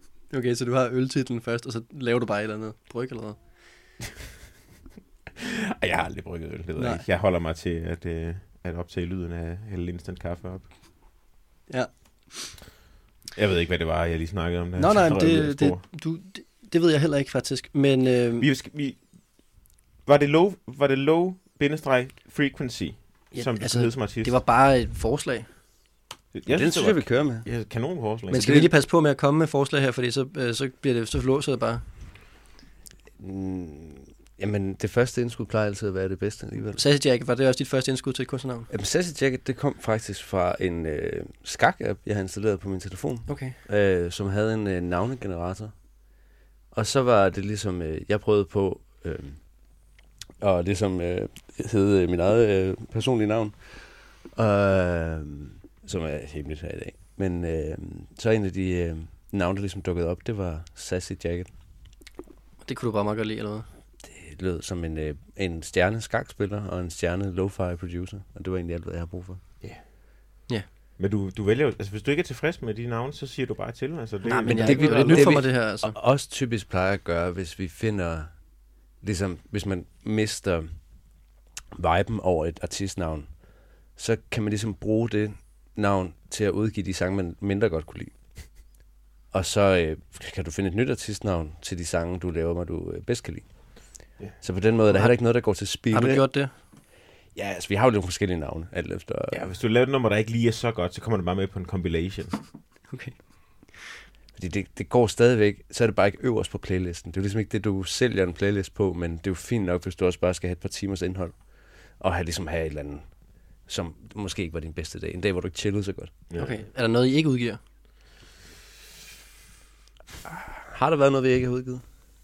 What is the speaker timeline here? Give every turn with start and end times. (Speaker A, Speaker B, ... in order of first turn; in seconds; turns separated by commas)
Speaker A: 0.3-3.4, Speaker B: 5.4-10.7, Speaker A: 6.8-7.0, Speaker A: 11.7-12.5, Speaker B: 13.3-15.8, Speaker A: 14.8-18.5, Speaker B: 18.4-19.0, Speaker B: 20.1-24.4, Speaker A: 23.3-25.5, Speaker B: 26.3-28.6, Speaker C: 26.5-27.5, Speaker C: 28.3-28.7, Speaker A: 28.3-31.8, Speaker C: 33.2-36.8, Speaker A: 36.8-38.7, Speaker C: 38.7-45.7, Speaker A: 43.3-43.6, Speaker C: 46.7-49.4, Speaker C: 50.4-61.5, Speaker A: 62.6-63.7, Speaker C: 64.0-69.4, Speaker B: 71.0-75.5, Speaker A: 74.2-76.0, Speaker C: 74.5-78.3, Speaker C: 79.0-80.8, Speaker C: 81.7-83.3, Speaker C: 84.0-88.1, Speaker C: 89.3-93.5, Speaker C: 94.4-96.2, Speaker A: 95.9-96.5, Speaker C: 97.3-99.5, Speaker B: 99.3-102.4, Speaker A: 102.9-103.2, Speaker C: 104.3-113.0, Speaker C: 113.7-116.1, Speaker B: 116.3-116.6, Speaker A: 116.4-117.6, Speaker C: 120.2-121.8